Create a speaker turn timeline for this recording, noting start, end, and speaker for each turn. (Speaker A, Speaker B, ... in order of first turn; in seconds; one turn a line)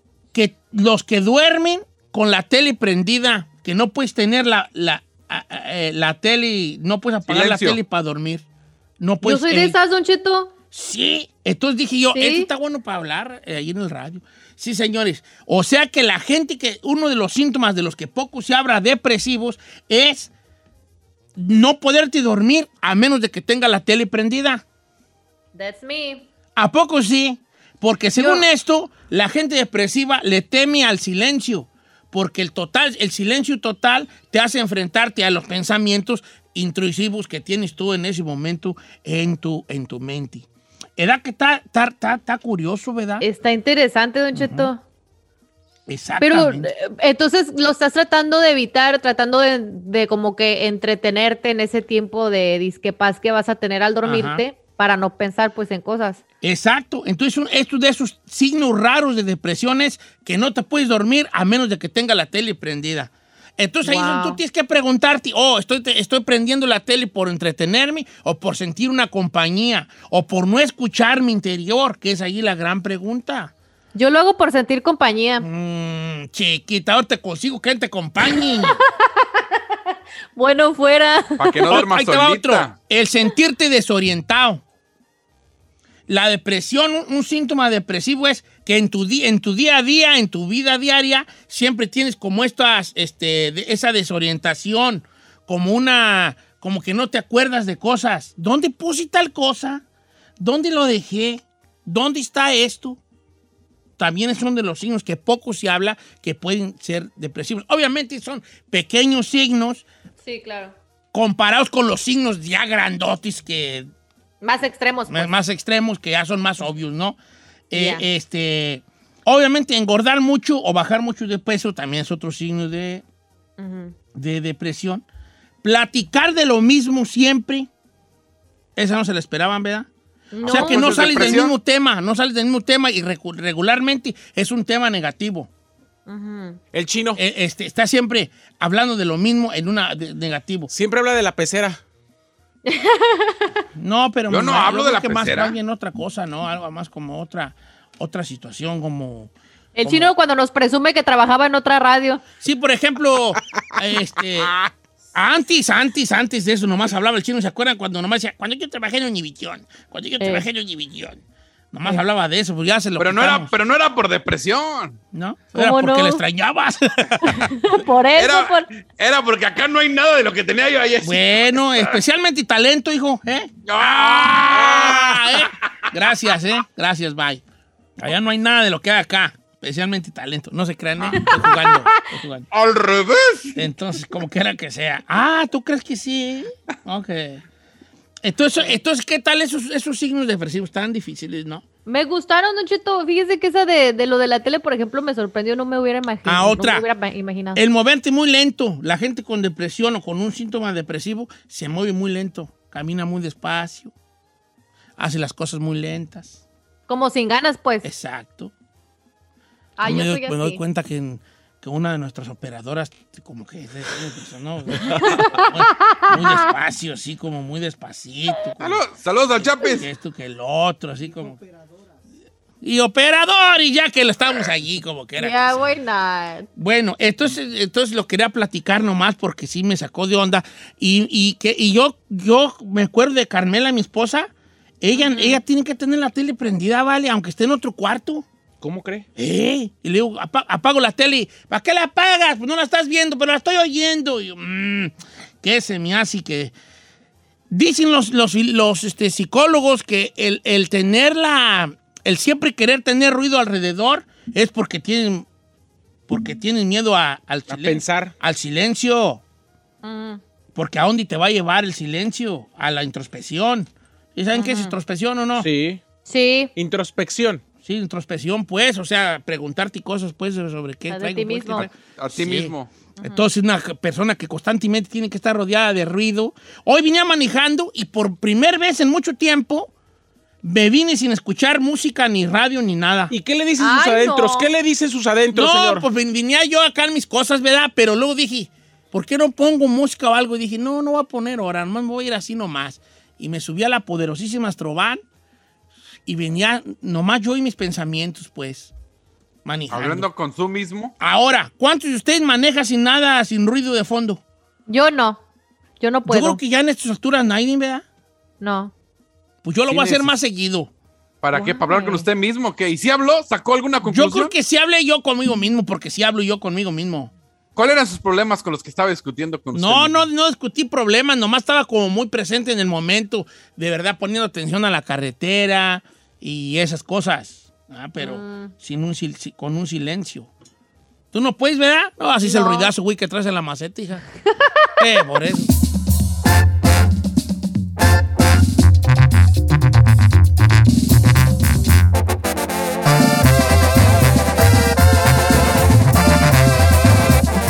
Speaker A: 0.3-8.4
Speaker B: 7.2-7.8
Speaker A: 9.0-9.8
Speaker C: 9.2-10.5
Speaker A: 10.7-20.3
Speaker C: 12.1-12.5
Speaker A: 21.4-24.6
Speaker C: 25.5-26.3
Speaker A: 26.6-40.5
Speaker C: 28.1-28.5
Speaker A: 41.0-43.2
Speaker C: 43.2-44.8
Speaker A: 44.3-44.7
Speaker A: 45.9-46.7
Speaker C: 46.2-56.2
Speaker A: 54.0-54.4
Speaker A: 56.4-73.5
Speaker C: 63.8-64.4
Speaker C: 73.9-75.5
Speaker A: 75.4-78.8
Speaker C: 78.2-79.5
Speaker C: 80.3-81.8
Speaker B: 81.4-82.7
Speaker A: 81.7-84.6
Speaker A: 86.1-99.8
Speaker A: 100.4-103.0
Speaker A: 104.0-109.8
Speaker C: 110.2-110.7
Speaker A: 111.1-113.9
Speaker C: 114.4-115.3
Speaker A: 115.1-117.2
Speaker A: 117.7-123.0
Speaker C: 117.7-118.0
Speaker C: 123.6-123.9
Speaker A: 124.1-125.0
Speaker A: 125.6-127.7
Speaker A: 128.8-129.9
Speaker C: 130.3-131.5
Speaker B: 130.4-131.4
Speaker A: 130.4-135.5
Speaker C: 136.1-136.6
Speaker D: 136.7-137.2
Speaker A: 137.2-140.7
Speaker D: 140.7-141.8
Speaker C: 142.7-143.6
Speaker A: 143.8-150.1
Speaker B: 144.3-145.6
Speaker C: 149.8-152.2
Speaker A: 152.4-154.5
Speaker A: 155.1-161.2
Speaker C: 160.2-160.4
Speaker A: 161.7-163.5
Speaker B: 163.0-165.0
Speaker A: 165.1-167.5
Speaker C: 165.5-166.2
Speaker C: 167.3-168.7
Speaker B: 168.1-172.0
Speaker A: 171.0-177.4
Speaker B: 173.6-176.3
Speaker A: 178.0-182.5
Speaker C: 181.2-182.0
Speaker B: 182.5-183.6
Speaker A: 183.5-187.4
Speaker A: 188.2-191.6
Speaker C: 191.8-197.6
Speaker A: 196.2-196.8
Speaker A: 197.5-203.9
Speaker A: 205.0-206.4
Speaker C: 206.9-207.8
Speaker A: 207.8-208.5
Speaker C: 209.8-210.6
Speaker A: 209.8-218.8
Speaker C: 215.0-216.5
Speaker B: 218.6-219.8
Speaker A: 219.4-221.4
Speaker A: 222.6-225.6
Speaker C: 225.2-226.5
Speaker A: 226.6-234.3
Speaker A: 234.8-238.2
Speaker C: 234.9-235.4
Speaker D: 238.6-239.1
Speaker A: 239.2-246.5
Speaker A: 247.5-255.3
Speaker A: 256.1-259.2
Speaker D: 257.5-258.1
Speaker C: 259.8-260.2
Speaker A: 260.5-265.5
Speaker C: 264.3-264.7
Speaker D: 265.4-265.8
Speaker C: 266.0-266.5
Speaker D: 266.6-267.4
Speaker A: 267.6-279.7
Speaker C: 270.9-271.7
Speaker B: 272.0-272.7
Speaker C: 273.0-273.3
Speaker A: 280.4-283.1
Speaker D: 283.1-285.8
Speaker C: 283.6-284.5
Speaker A: 285.3-295.0
Speaker A: 296.1-298.7
Speaker A: 299.4-300.1
Speaker B: 299.7-300.9
Speaker A: 301.0-304.2
Speaker C: 304.7-305.2
Speaker C: 305.8-306.4
Speaker A: 306.1-307.8
Speaker C: 308.4-308.7
Speaker A: 309.4-310.7
Speaker B: 309.7-310.1
Speaker B: 311.2-314.3
Speaker C: 311.3-312.1
Speaker A: 313.8-317.1
Speaker B: 317.6-320.0
Speaker A: 319.5-330.3
Speaker C: 328.0-328.5
Speaker A: 331.1-334.1
Speaker C: 332.2-332.7
Speaker A: 334.8-335.5